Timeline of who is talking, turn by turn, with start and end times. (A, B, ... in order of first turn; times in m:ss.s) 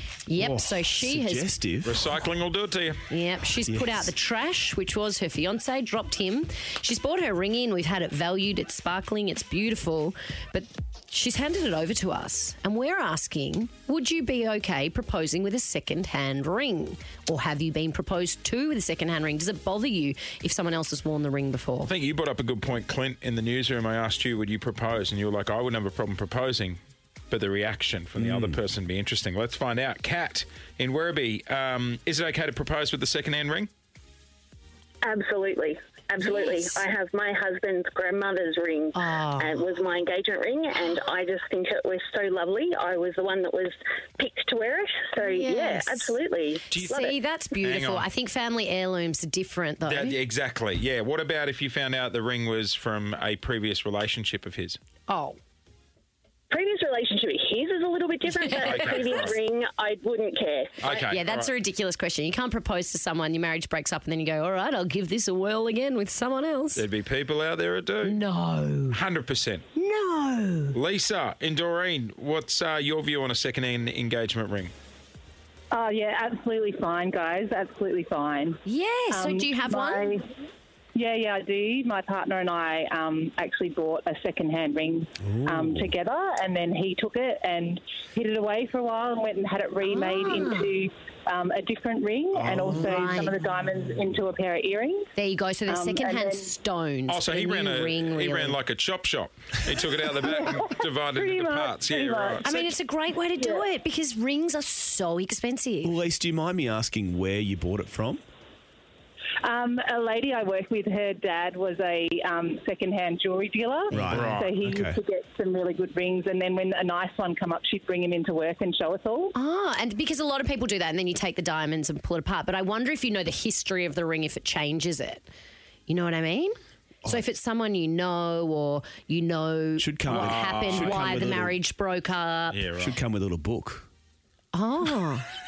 0:00.3-0:01.5 A
0:00.4-0:02.0 B
0:01.8-0:03.0 C
0:03.1-0:21.9 A
0:03.6-0:04.1 B
0:21.9-0:26.8 C
0:27.3-0:33.7 C
0:28.2-0:28.6 B
0:35.0-0:47.1 D
0:36.3-0:36.6 A
0:38.9-0:39.7 A
0:45.2-0:46.1 A
0:46.7-0:47.0 C
0:46.9-0:50.2 A
0:47.6-0:48.1 C
0:49.8-0:54.8 C
0:55.1-0:55.4 A
0:56.5-1:00.8 D
0:58.4-0:58.8 A
0:58.6-0:59.4 C
1:00.8-1:01.5 C
1:00.9-1:06.8 A
1:06.8-1:08.2 C
1:08.0-1:09.0 A
1:08.9-1:09.6 C
1:09.8-1:10.8 A
1:10.7-1:14.7 C
1:15.7-1:20.2 E
1:18.6-1:20.2 A
1:21.0-1:35.1 E
1:25.2-1:25.9 B
1:29.8-1:30.7 A
1:32.3-1:32.9 B
1:32.6-1:33.4 A
1:35.2-1:38.6 A
1:35.7-1:36.5 E
1:37.1-1:42.6 C
1:40.2-1:42.6 E
1:42.4-1:45.9 A
1:43.4-1:43.7 E
1:45.8-1:48.2 B
1:49.4-1:59.3 E
1:53.9-1:55.0 B
1:54.1-1:54.5 C
1:59.3-2:05.2 A
2:05.9-2:06.5 A
2:07.0-2:12.6 A
2:09.8-2:11.5 B
2:10.1-2:11.2 C
2:12.5-2:13.0 C
2:12.8-2:13.8 B
2:14.5-2:15.3 A